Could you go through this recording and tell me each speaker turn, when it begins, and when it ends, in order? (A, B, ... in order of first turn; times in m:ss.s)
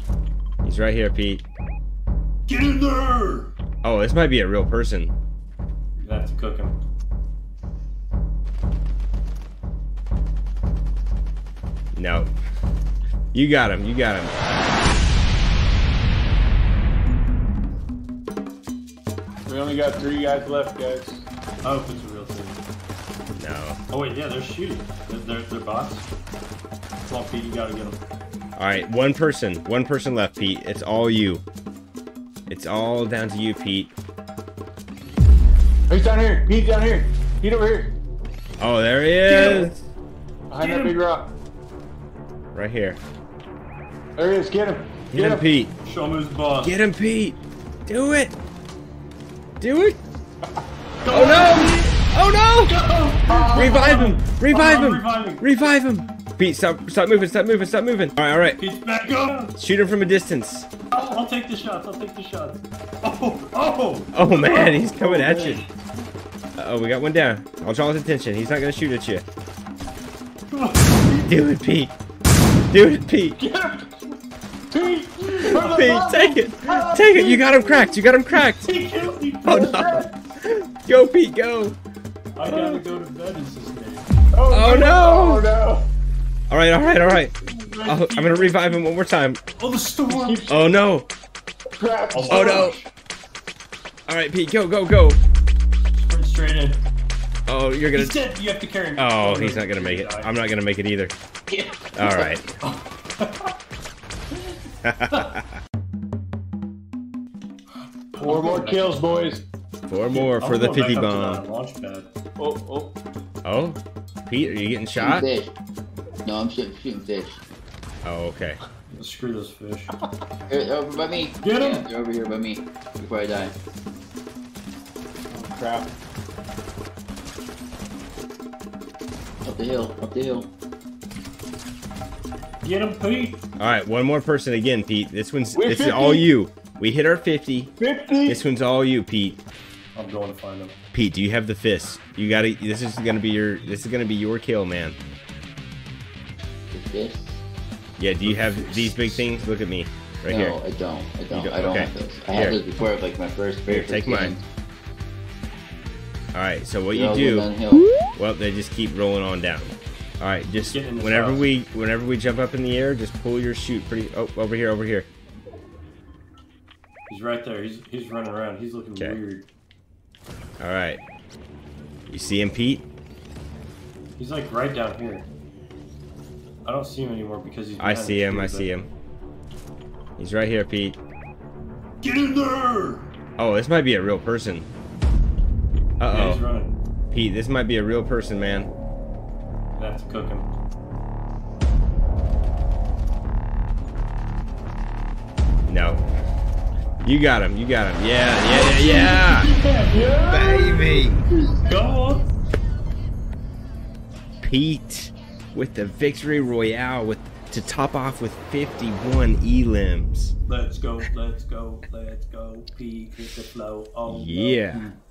0:00.6-0:01.4 A
0:02.5-0:03.5 B
0:03.8-0:05.2 A
0:06.0-0:06.8 B
0:12.0-0:12.3 A
0:13.3-0:14.4 A
0:19.5-0:21.3 C
0:21.6-0:22.6 B
0:23.4-0:23.8 A
0:23.9-0:26.1 B
0:27.1-0:28.0 B
0:28.6-0:31.4 A
0:32.5-0:33.9 A
0:35.9-0:37.9 C
0:38.6-0:39.8 A
0:39.3-0:39.7 B
0:40.5-0:41.3 C
0:40.6-0:41.0 B
0:42.5-0:43.0 A
0:44.2-0:45.5 C
0:45.1-0:45.7 A
0:45.8-0:46.8 B
0:46.6-0:48.3 A
0:49.6-0:50.0 A
0:51.0-0:52.0 B
0:51.1-0:52.8 A
0:52.6-0:55.4 B
0:53.3-0:53.6 C
0:53.5-0:58.6 A
0:58.6-0:59.5 B
0:59.6-1:00.7 A
1:00.9-1:05.6 B
1:04.1-1:05.6 A
1:06.6-1:09.2 A
1:10.5-1:11.3 B
1:11.2-1:12.0 A
1:12.7-1:13.4 A
1:13.4-1:13.9 C
1:14.7-1:16.1 C
1:15.2-1:17.2 B
1:15.5-1:18.7 A
1:17.1-1:17.4 C
1:18.6-1:20.1 B
1:19.4-1:21.8 A
1:22.4-1:24.1 B
1:22.4-1:22.8 A
1:24.3-1:25.9 C
1:24.5-1:25.5 A
1:26.5-1:27.3 A
1:27.0-1:28.8 B
1:27.8-1:29.4 A
1:29.6-1:30.5 B
1:30.1-1:30.6 C
1:30.5-1:31.1 A
1:31.8-1:32.8 C
1:32.1-1:32.8 B
1:32.3-1:32.8 A
1:34.1-1:35.2 A
1:35.9-1:36.8 B
1:37.5-1:38.3 A
1:37.9-1:40.4 B
1:39.0-1:41.1 A
1:41.5-1:42.3 D
1:41.9-1:42.5 A
1:42.6-1:43.5 B
1:44.8-1:45.5 A
1:48.1-1:49.0 B
1:48.2-1:49.4 C
1:49.9-1:51.4 A
1:50.1-1:52.1 B
1:52.4-1:52.9 C
1:53.4-1:55.3 A
1:55.0-1:55.5 D
1:56.2-1:57.4 D
1:58.0-1:58.6 A
1:58.9-1:59.9 B
2:00.5-2:03.6 D
2:01.4-2:01.9 B
2:05.3-2:05.9 C
2:09.4-2:10.5 D
2:12.6-2:13.4 B
2:13.6-2:17.7 A
2:15.5-2:16.3 C
2:17.8-2:18.4 C
2:18.3-2:19.4 A
2:20.0-2:20.8 B
2:20.9-2:25.0 A
2:26.7-2:27.4 D
2:28.0-2:30.6 A
2:28.2-2:29.2 B
2:30.3-2:34.4 D
2:31.3-2:32.6 A
2:33.7-2:34.4 A
2:36.3-2:37.5 A
2:36.9-2:37.9 D
2:38.1-2:45.1 A
2:40.7-2:41.5 B
2:47.1-2:49.5 B
2:50.6-2:51.0 A
2:52.1-2:52.9 A
2:54.2-2:55.3 B
2:56.6-2:58.7 B
2:57.8-2:58.9 A
3:00.2-3:01.0 A
3:02.0-3:03.1 B
3:03.4-3:04.7 A
3:06.0-3:06.4 A
3:06.1-3:06.7 B
3:07.1-3:08.7 A
3:09.8-3:10.5 B
3:15.7-3:16.0 A
3:17.0-3:19.5 A
3:18.4-3:20.3 B
3:19.9-3:21.6 C
3:20.3-3:21.2 A
3:21.6-3:22.3 B
3:24.4-3:30.4 A
3:30.5-3:34.9 B
3:34.0-3:34.8 A